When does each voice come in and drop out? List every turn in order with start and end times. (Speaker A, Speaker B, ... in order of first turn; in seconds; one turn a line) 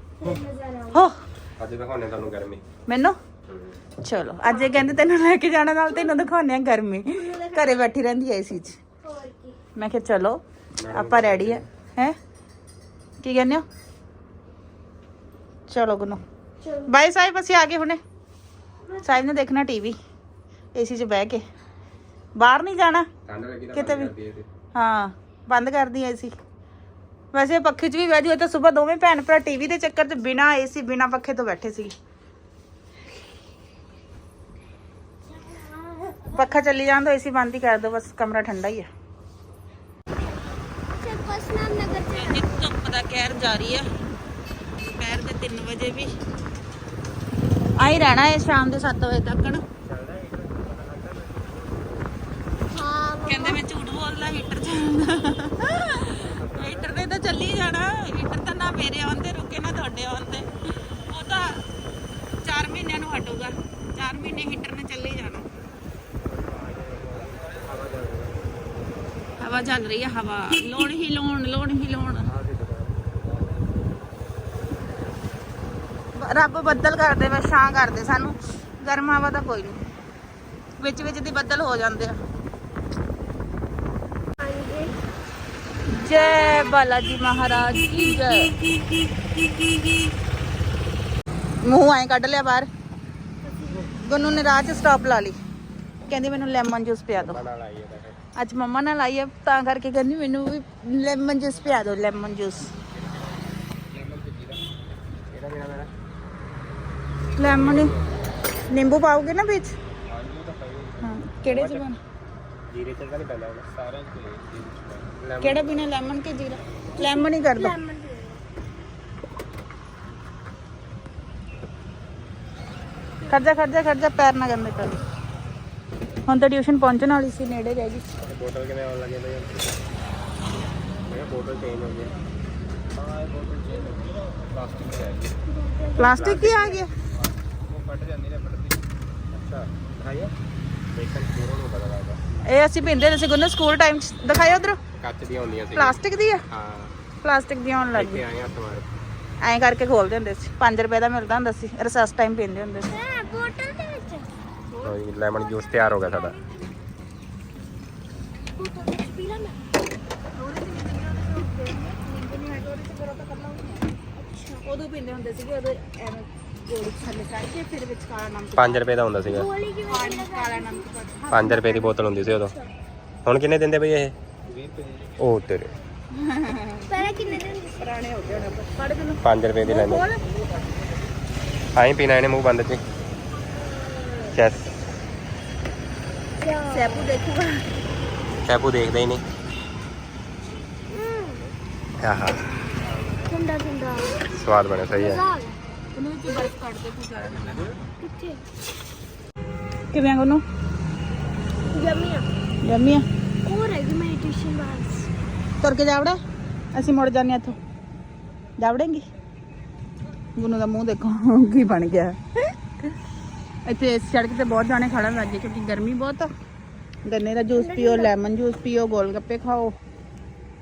Speaker A: 0.2-1.0
Speaker B: 1.6-2.6
Speaker C: 2.9-3.1
Speaker B: 3.5-3.8
Speaker C: 4.0-8.8
Speaker A: 4.4-4.8
Speaker A: 5.9-6.2
Speaker A: 7.1-7.8
Speaker A: 9.0-9.6
Speaker C: 9.8-12.1
Speaker B: 10.8-11.6
Speaker C: 13.2-13.6
Speaker C: 15.7-16.2
Speaker A: 16.6-16.9
Speaker C: 16.9-18.0
Speaker A: 18.9-19.2
Speaker C: 19.0-19.9
Speaker C: 20.7-21.4
Speaker C: 22.4-23.1
Speaker B: 23.2-24.4
Speaker C: 23.7-24.1
Speaker C: 24.7-26.3
Speaker C: 27.3-31.9
Speaker A: 35.4-36.4
Speaker C: 36.3-38.9
Speaker A: 41.0-42.5
Speaker C: 42.0-43.9
Speaker C: 44.8-46.1
Speaker C: 47.8-49.6
Speaker B: 49.8-51.6
Speaker A: 52.7-53.6
Speaker C: 53.2-61.6
Speaker B: 56.5-56.9
Speaker C: 62.4-65.5
Speaker B: 66.5-68.3
Speaker C: 69.4-72.3
Speaker B: 72.3-73.1
Speaker C: 76.2-79.8
Speaker C: 80.8-82.2
Speaker A: 84.4-85.0
Speaker C: 85.9-88.5
Speaker A: 86.1-86.8
Speaker C: 91.6-92.7
Speaker A: 93.4-93.9
Speaker C: 94.0-95.3
Speaker C: 96.1-97.4
Speaker B: 97.2-98.2
Speaker C: 98.3-102.7
Speaker B: 103.9-104.6
Speaker B: 105.3-105.9
Speaker C: 107.3-107.9
Speaker B: 107.4-108.0
Speaker C: 108.7-109.7
Speaker B: 110.1-111.8
Speaker C: 111.0-112.0
Speaker B: 112.7-115.7
Speaker C: 115.4-117.7
Speaker A: 117.0-118.4
Speaker C: 123.3-125.0
Speaker C: 126.3-128.1
Speaker B: 128.2-129.7
Speaker B: 131.1-132.1
Speaker B: 133.0-135.3
Speaker A: 135.5-136.8
Speaker C: 136.0-136.9
Speaker B: 136.2-136.5
Speaker B: 137.7-138.7
Speaker B: 139.3-140.3
Speaker B: 140.9-142.2
Speaker C: 142.5-144.8
Speaker B: 145.0-146.0
Speaker C: 145.8-146.4
Speaker B: 146.5-146.9
Speaker C: 147.2-148.2
Speaker B: 147.9-148.8
Speaker C: 149.4-152.9
Speaker A: 152.9-154.3
Speaker C: 154.7-156.4
Speaker B: 154.8-156.3
Speaker A: 158.6-159.6
Speaker C: 160.3-163.9
Speaker A: 164.2-164.6
Speaker C: 164.6-168.8
Speaker B: 168.6-169.5
Speaker A: 169.2-170.9
Speaker C: 169.9-172.0
Speaker B: 171.3-172.5
Speaker A: 172.1-172.7
Speaker B: 173.2-174.1
Speaker B: 174.9-175.7
Speaker C: 176.2-179.2
Speaker A: 176.9-177.8
Speaker B: 179.2-180.1
Speaker A: 179.6-180.2
Speaker B: 181.8-182.8
Speaker A: 184.0-184.3
Speaker B: 184.3-184.7
Speaker A: 186.4-187.1
Speaker C: 186.7-187.6
Speaker B: 188.4-189.2
Speaker A: 190.9-191.4
Speaker B: 192.0-192.4
Speaker A: 193.2-194.2
Speaker B: 194.3-195.2
Speaker A: 194.9-195.5
Speaker C: 195.9-197.7
Speaker A: 198.0-198.4
Speaker C: 199.9-200.4
Speaker A: 201.7-202.2
Speaker C: 202.6-203.0
Speaker A: 203.4-205.1
Speaker C: 205.6-206.2
Speaker C: 206.7-207.6
Speaker C: 208.6-209.0
Speaker C: 210.3-212.2
Speaker C: 213.7-216.3
Speaker C: 217.1-219.8
Speaker A: 217.5-218.1